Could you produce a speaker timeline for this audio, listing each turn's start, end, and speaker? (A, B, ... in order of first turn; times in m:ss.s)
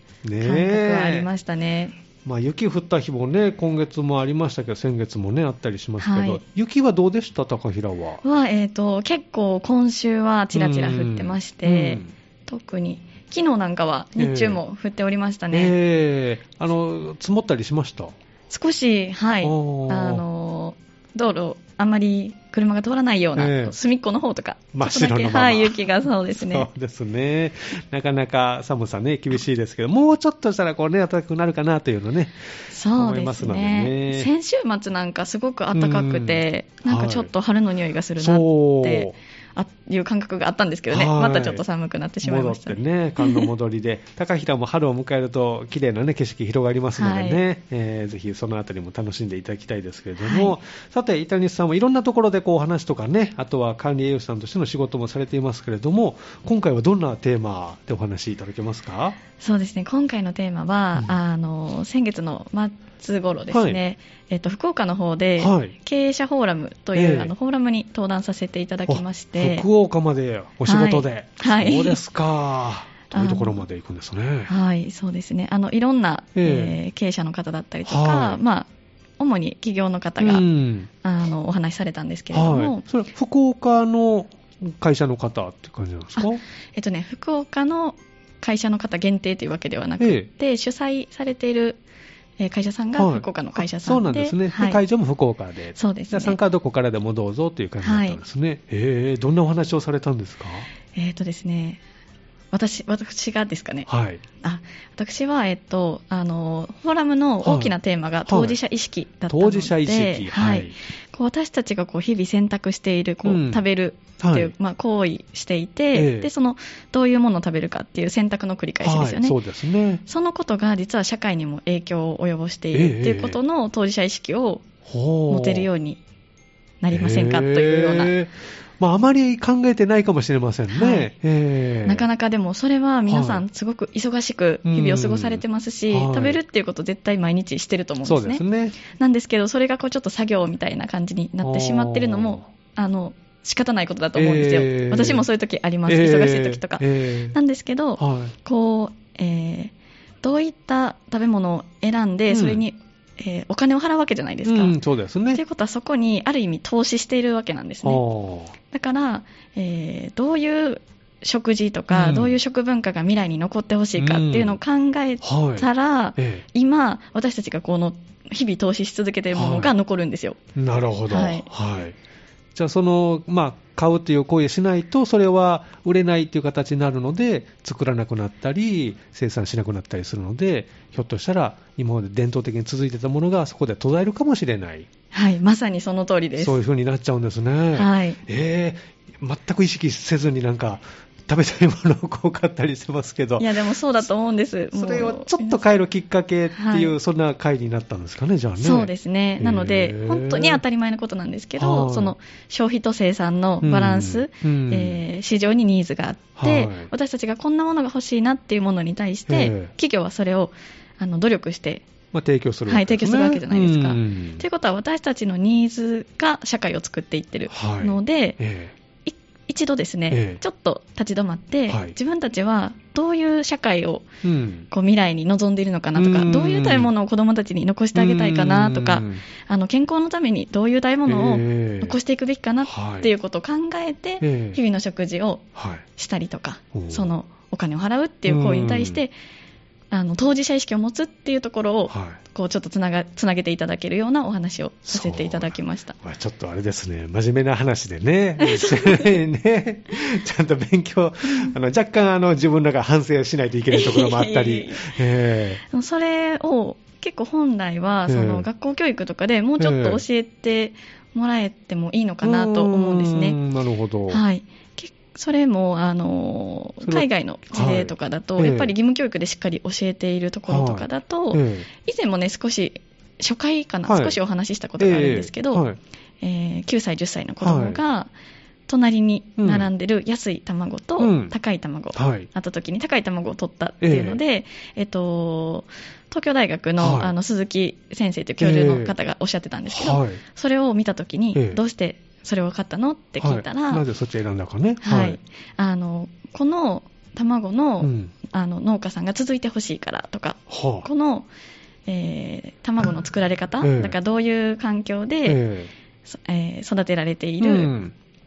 0:00.2-0:01.3 A
0:00.4-0:02.0 B
0:02.2-0:08.2 A
0:06.0-0:06.4 B
0:08.2-0:15.8 B
0:10.5-0:12.1 A
0:14.2-0:14.6 A
0:15.5-0:18.2 A
0:18.5-0:26.7 B
0:19.4-0:20.2 A
0:23.4-0:23.8 A
0:24.7-0:34.3 A
0:32.7-0:43.5 B
0:35.7-0:37.3 A
0:38.2-0:39.2 A
0:40.9-0:41.6 A
0:42.2-0:59.2 A
0:47.0-0:47.4 B
0:50.2-0:50.6 B
0:59.4-1:09.7 B
1:03.5-1:03.8 A
1:05.4-1:05.7 A
1:06.9-1:07.3 A
1:08.9-1:14.5 A
1:10.7-1:12.0 B
1:13.1-1:13.6 B
1:14.5-1:20.4 B
1:16.3-1:16.8 A
1:17.8-1:18.4 A
1:20.2-1:20.9 A
1:21.0-1:22.8 B
1:22.3-1:26.4 A
1:26.2-1:31.8 B
1:30.0-1:30.3 A
1:32.4-1:34.8 B
1:33.0-1:40.7 A
1:35.8-1:36.4 B
1:37.8-1:38.2 B
1:40.9-1:41.8 B
1:42.5-1:43.9 B
1:43.9-1:44.2 A
1:44.4-1:59.4 B
1:47.4-1:47.7 A
1:48.3-1:48.6 A
1:49.3-1:50.8 A
1:53.2-1:53.6 A
1:54.2-1:54.5 A
1:55.9-1:56.3 A
1:58.8-2:00.0 A
2:00.1-2:04.7 B
2:02.7-2:03.4 A
2:04.8-2:05.7 A
2:05.3-2:06.0 B
2:06.8-2:08.1 B
2:06.9-2:12.1 A
2:10.7-2:11.1 B
2:11.8-2:34.8 B
2:13.1-2:13.4 A
2:14.6-2:16.4 A
2:18.0-2:18.8 A
2:21.4-2:22.4 A
2:24.2-2:25.2 A
2:25.9-2:27.4 A
2:28.0-2:28.3 A
2:32.3-2:32.6 A
2:34.4-2:35.4 A
2:35.3-2:38.0 B
2:37.8-2:38.5 A
2:38.7-2:50.4 B
2:41.9-2:42.3 A
2:44.0-2:44.6 A
2:45.2-2:46.4 A
2:49.3-2:49.7 A
2:50.6-2:52.0 A
2:51.1-2:51.5 B
2:52.5-3:04.9 A
3:05.1-3:06.6 B
3:06.4-3:13.8 A
3:07.8-3:08.2 B
3:13.4-3:15.6 B
3:14.7-3:20.6 A
3:16.5-3:16.9 B
3:18.6-3:31.9 B
3:21.6-3:22.1 A
3:23.6-3:25.0 A
3:26.4-3:26.9 A
3:29.3-3:29.7 A
3:32.1-3:34.4 A
3:32.7-3:38.4 B
3:37.5-3:38.7 A
3:39.0-3:44.1 B
3:40.1-3:40.4 A
3:41.7-3:41.9 A
3:44.2-3:44.7 A
3:44.7-3:59.1 B
3:46.0-3:46.9 A
3:47.9-3:49.2 A
3:51.1-3:52.0 A
3:52.6-3:53.1 A
3:54.2-3:54.6 A
3:55.5-3:55.8 A
3:56.7-3:57.1 A
3:58.2-3:59.0 A
3:59.9-4:06.0 B
4:01.9-4:02.2 A
4:04.9-4:15.6 A
4:08.4-4:09.2 B
4:13.7-4:14.9 B
4:15.6-4:23.4 B
4:18.1-4:18.5 A
4:19.6-4:20.0 A
4:22.2-4:24.2 A
4:24.1-4:35.6 B
4:26.8-4:28.7 A
4:30.5-4:31.7 A
4:33.9-4:34.2 A
4:34.8-4:35.8 A
4:36.2-4:38.1 B
4:37.4-4:37.8 A
4:38.7-4:53.8 B
4:39.4-4:39.7 A
4:41.0-4:41.4 A
4:41.9-4:42.3 A
4:43.8-4:44.2 A
4:46.8-4:47.1 A
4:48.4-4:48.9 A
4:49.7-4:50.2 A
4:51.3-4:51.6 A
4:53.2-4:55.2 A
4:54.8-5:01.3 B
4:57.8-4:58.1 A
5:00.5-5:00.9 A
5:01.9-5:05.4 B
5:03.6-5:04.0 A
5:05.2-5:05.7 A
5:06.1-5:07.7 B
5:07.4-5:07.9 A